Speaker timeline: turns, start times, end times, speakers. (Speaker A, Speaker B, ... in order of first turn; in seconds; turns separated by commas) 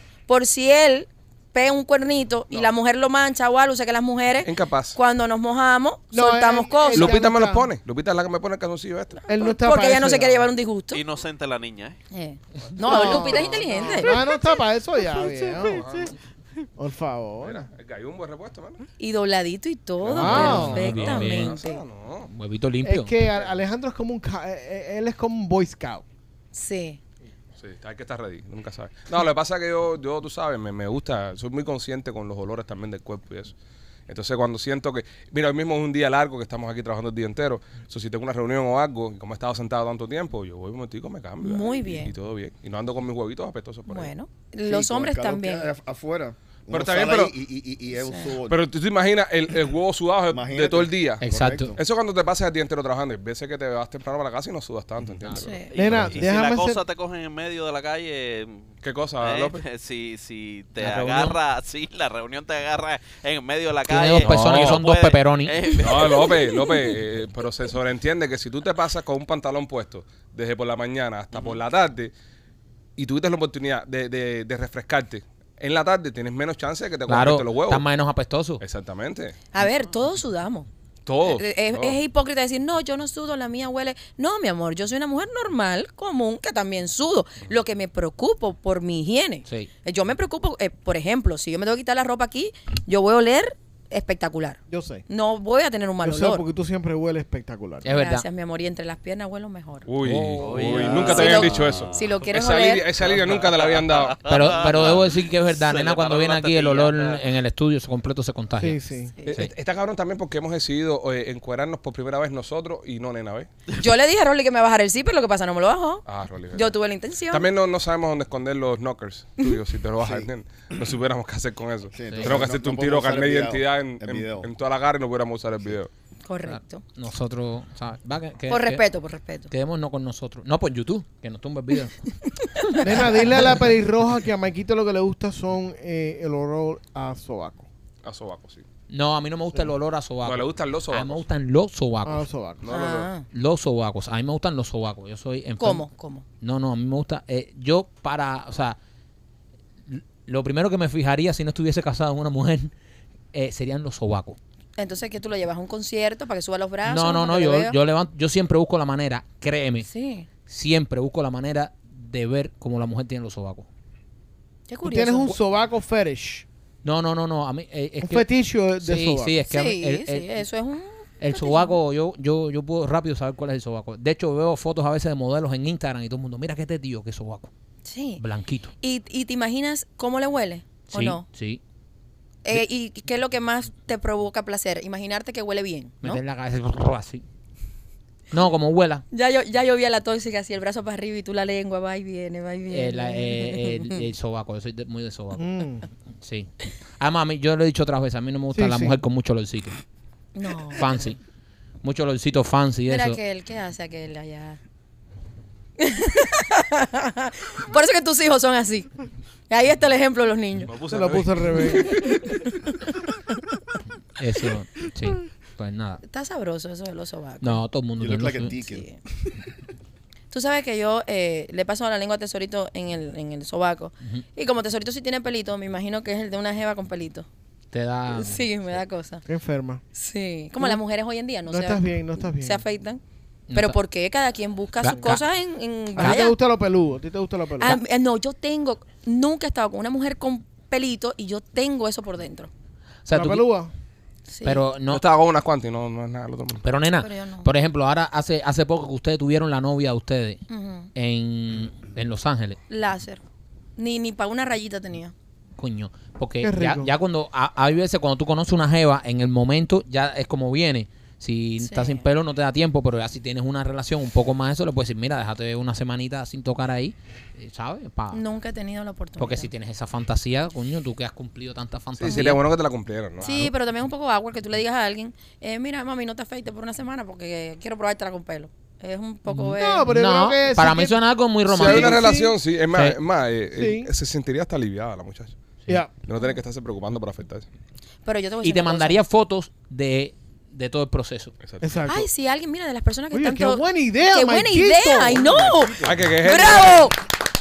Speaker A: 0.3-7.2, Speaker B: 4.5-5.0, Speaker C: 6.1-7.7, Speaker B: 6.9-9.2, Speaker C: 9.3-10.5, Speaker A: 9.3-11.0, Speaker D: 10.9-12.0, Speaker A: 12.1-14.2, Speaker C: 12.8-16.1, Speaker B: 15.6-16.1, Speaker C: 16.8-17.6, Speaker B: 17.4-18.8, Speaker A: 19.0-21.8, Speaker B: 20.0-22.3, Speaker C: 20.1-21.0, Speaker E: 20.2-21.6, Speaker E: 22.3-23.2, Speaker C: 22.8-26.0, Speaker A: 26.5-27.0, Speaker B: 27.6-33.5, Speaker B: 34.1-44.1, Speaker A: 41.4-42.1, Speaker A: 43.9-45.7, Speaker F: 44.6-48.6, Speaker B: 46.7-47.3, Speaker A: 48.1-48.3, Speaker B: 48.5-51.2, Speaker F: 50.3-51.8, Speaker E: 51.2-51.7, Speaker B: 51.8-56.1, Speaker E: 55.2-55.5, Speaker A: 55.3-55.7, Speaker D: 55.7-66.6, Speaker C: 55.7-56.8, Speaker B: 58.8-59.6, Speaker E: 60.8-61.4, Speaker E: 63.9-65.7, Speaker B: 64.2-64.8, Speaker B: 65.8-72.1, Speaker B: 73.0-77.8, Speaker E: 77.1-78.6, Speaker B: 78.6-79.4, Speaker A: 79.5-80.7, Speaker B: 81.1-82.0, Speaker A: 81.2-96.4, Speaker C: 94.7-95.0, Speaker C: 96.0-97.9, Speaker E: 97.8-98.3, Speaker A: 97.9-99.9, Speaker B: 99.9-104.2, Speaker E: 100.0-101.1, Speaker D: 100.4-102.0, Speaker A: 101.0-102.9, Speaker D: 103.1-107.2, Speaker E: 104.3-109.5, Speaker C: 108.6-109.1, Speaker B: 109.2-113.5, Speaker A: 113.8-117.5, Speaker B: 116.1-116.7, Speaker B: 117.3-125.9, Speaker F: 120.0-120.3, Speaker F: 121.9-124.5, Speaker E: 122.1-122.3, Speaker A: 126.3-126.8, Speaker E: 126.5-128.8, Speaker A: 128.5-129.5, Speaker E: 129.5-132.0, Speaker A: 132.4-133.4, Speaker C: 132.8-137.7, Speaker B: 138.0-138.6, Speaker E: 138.9-142.3, Speaker B: 140.2-141.2, Speaker C: 142.1-142.6, Speaker B: 142.6-143.1, Speaker A: 142.7-143.3, Speaker E: 143.3-145.9, Speaker A: 145.6-146.2, Speaker E: 146.4-148.8, Speaker E: 149.9-152.7, Speaker E: 153.3-154.4, Speaker A: 154.8-157.8, Speaker E: 156.9-159.9, Speaker A: 159.9-160.3, Speaker E: 160.5-163.7, Speaker A: 164.7-165.4, Speaker C: 164.8-166.4, Speaker E: 166.8-168.3, Speaker C: 168.0-169.4, Speaker E: 168.8-170.3, Speaker A: 169.5-171.8, Speaker E: 171.2-177.5, Speaker A: 177.8-178.2, Speaker E: 178.2-178.7, Speaker A: 178.8-181.2, Speaker E: 180.9-181.6, Speaker A: 182.4-186.2, Speaker E: 186.0-187.2, Speaker E: 188.3-189.1, Speaker A: 189.1-194.0, Speaker E: 192.7-195.5, Speaker C: 195.4-195.9, Speaker E: 196.2-199.8, Speaker C: 198.5-199.0, Speaker A: 200.3-201.0, Speaker E: 200.8-201.2, Speaker E: 201.8-203.2, Speaker A: 202.9-204.6, Speaker A: 205.8-208.9, Speaker A: 209.5-210.7, Speaker B: 210.7-212.1, Speaker C: 210.9-212.0, Speaker A: 211.8-212.7, Speaker E: 214.2-216.0, Speaker A: 216.1-217.6, Speaker E: 217.4-218.6, Speaker F: 218.0-218.9, Speaker A: 218.5-219.0, Speaker A: 220.3-227.3, Speaker E: 227.7-228.5, Speaker A: 228.1-229.2, Speaker C: 229.3-229.8, Speaker A: 229.9-233.0, Speaker C: 231.5-232.6, Speaker E: 233.5-233.8, Speaker A: 233.5-236.4, Speaker E: 234.8-235.2, Speaker C: 236.0-237.8, Speaker A: 237.6-242.5, Speaker E: 243.1-243.5, Speaker C: 243.1-243.7, Speaker A: 244.3-244.6, Speaker E: 244.4-245.0, Speaker B: 244.9-246.6, Speaker E: 246.6-250.4, Speaker A: 247.0-247.5, Speaker A: 250.5-250.9, Speaker E: 250.9-252.6, Speaker A: 252.7-253.2, Speaker A: 253.8-255.1, Speaker E: 255.6-268.2, Speaker C: 256.4-256.9, Speaker A: 261.6-262.0, Speaker A: 268.1-269.5, Speaker E: 269.2-272.4, Speaker B: 272.0-273.3, Speaker A: 272.1-272.3, Speaker E: 273.2-273.5, Speaker A: 273.2-279.9, Speaker E: 279.3-282.1, Speaker C: 279.6-281.0, Speaker B: 281.5-285.4, Speaker C: 281.5-282.4, Speaker E: 282.7-283.0, Speaker C: 283.6-283.9, Speaker B: 286.0-287.5, Speaker A: 288.1-289.0, Speaker E: 288.4-291.3, Speaker C: 291.6-292.1, Speaker A: 291.9-297.0, Speaker C: 293.1-295.5, Speaker F: 295.5-295.9, Speaker B: 295.8-296.9